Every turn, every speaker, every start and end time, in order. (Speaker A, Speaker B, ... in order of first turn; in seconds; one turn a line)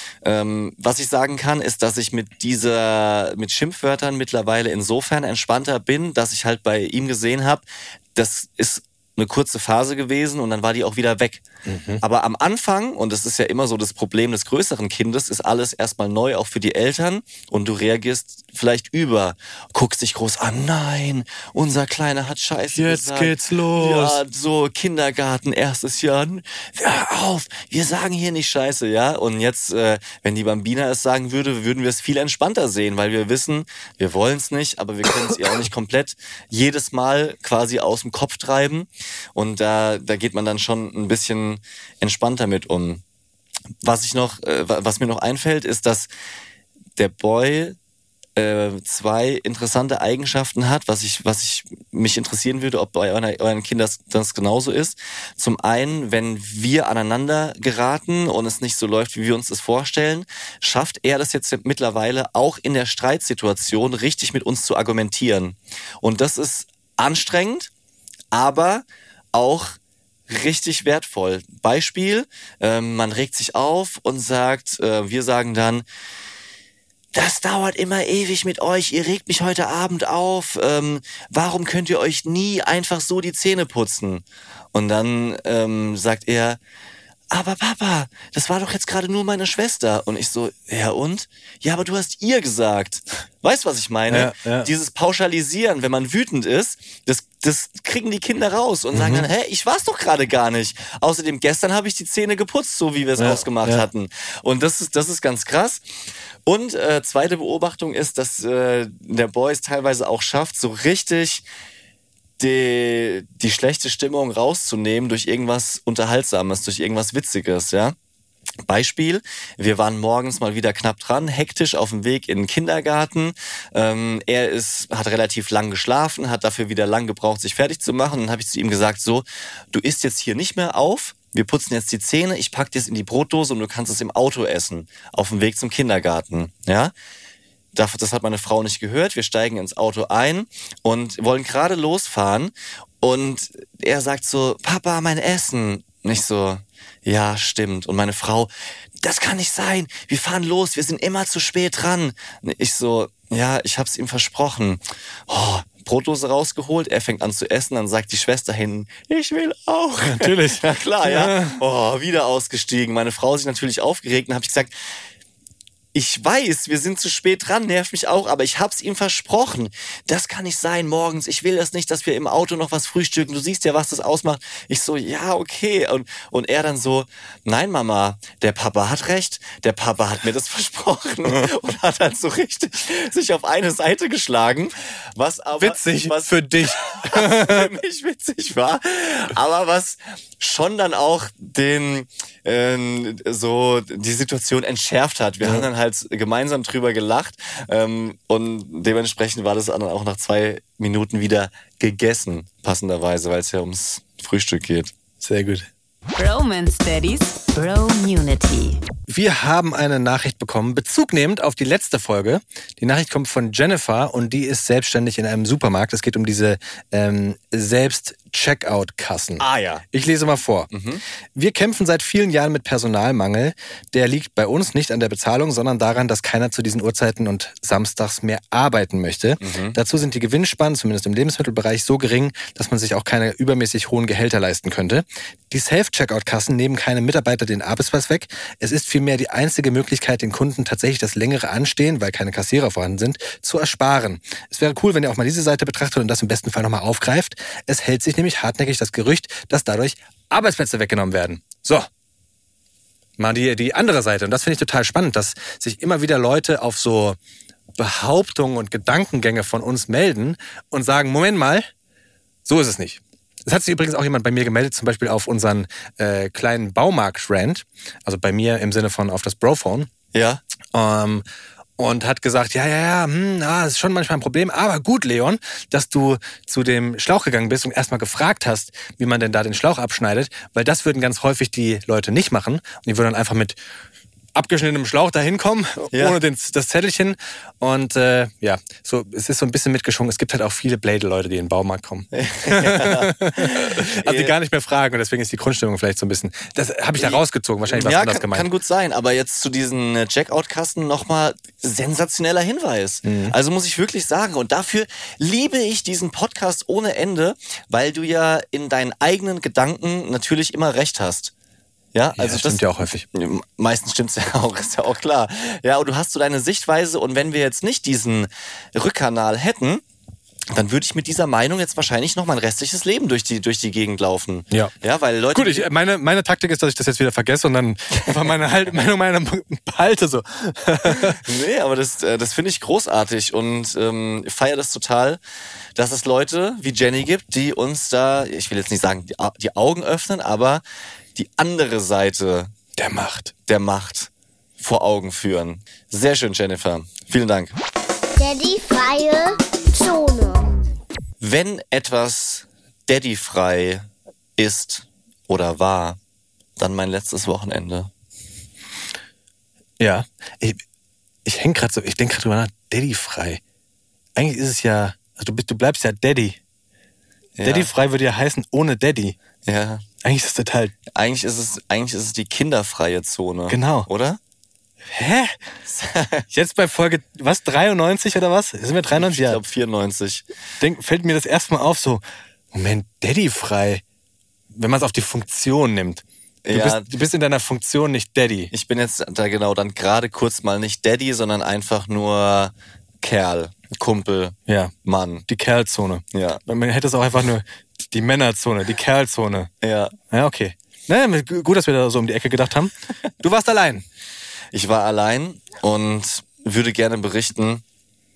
Speaker A: 0.2-11.4
Speaker B: 11.7-12.0
Speaker A: 12.0-43.0
Speaker B: 22.7-24.2
Speaker A: 43.8-46.1
Speaker A: 47.0-47.8
Speaker A: 48.4-67.7
Speaker A: 68.3-69.8
Speaker A: 70.3-75.8
Speaker A: 77.1-86.6
Speaker A: 87.3-105.8
Speaker B: 94.1-94.7
Speaker B: 98.9-99.3
Speaker B: 103.2-103.8
Speaker A: 106.5-111.4
Speaker A: 112.4-118.0
Speaker A: 118.7-136.9
Speaker A: 137.7-148.5
Speaker A: 149.0-164.7
Speaker B: 160.0-161.6
Speaker A: 165.9-204.9
Speaker B: 185.6-187.7
Speaker B: 205.2-205.7
Speaker C: 206.1-208.8
Speaker B: 209.1-220.7
Speaker A: 219.4-219.8
Speaker A: 220.7-221.0
Speaker B: 221.3-251.9
Speaker A: 229.4-229.8
Speaker B: 253.2-257.2
Speaker B: 257.8-261.7
Speaker B: 262.4-269.9
Speaker A: 270.1-270.4
Speaker B: 270.7-271.2
Speaker B: 271.8-283.6
Speaker B: 284.3-298.5
Speaker A: 285.9-286.2
Speaker A: 292.1-294.3
Speaker A: 297.0-311.3
Speaker B: 303.0-303.3
Speaker A: 311.9-312.6
Speaker B: 312.1-313.1
Speaker A: 313.1-319.8
Speaker A: 320.5-325.7
Speaker B: 325.3-331.2
Speaker A: 327.9-328.2
Speaker A: 331.1-335.2
Speaker A: 335.8-340.6
Speaker A: 341.1-342.5
Speaker B: 342.8-343.3
Speaker A: 343.5-347.6
Speaker D: 348.2-350.6
Speaker A: 351.2-356.0
Speaker A: 356.6-357.9
Speaker B: 359.8-360.6
Speaker B: 361.2-363.4
Speaker B: 364.1-366.4
Speaker A: 367.4-367.7
Speaker B: 367.4-369.1
Speaker A: 369.5-369.8
Speaker B: 370.0-370.7
Speaker A: 370.9-374.2
Speaker B: 373.5-373.9
Speaker B: 374.9-375.3
Speaker A: 375.7-376.2
Speaker B: 376.3-379.4
Speaker A: 378.9-380.2
Speaker B: 380.6-383.8
Speaker B: 384.5-388.5
Speaker A: 386.4-386.9
Speaker A: 388.5-395.2
Speaker B: 394.5-394.7
Speaker B: 395.2-399.5
Speaker A: 396.1-396.4
Speaker A: 399.6-399.9
Speaker B: 400.1-403.8
Speaker A: 404.5-407.6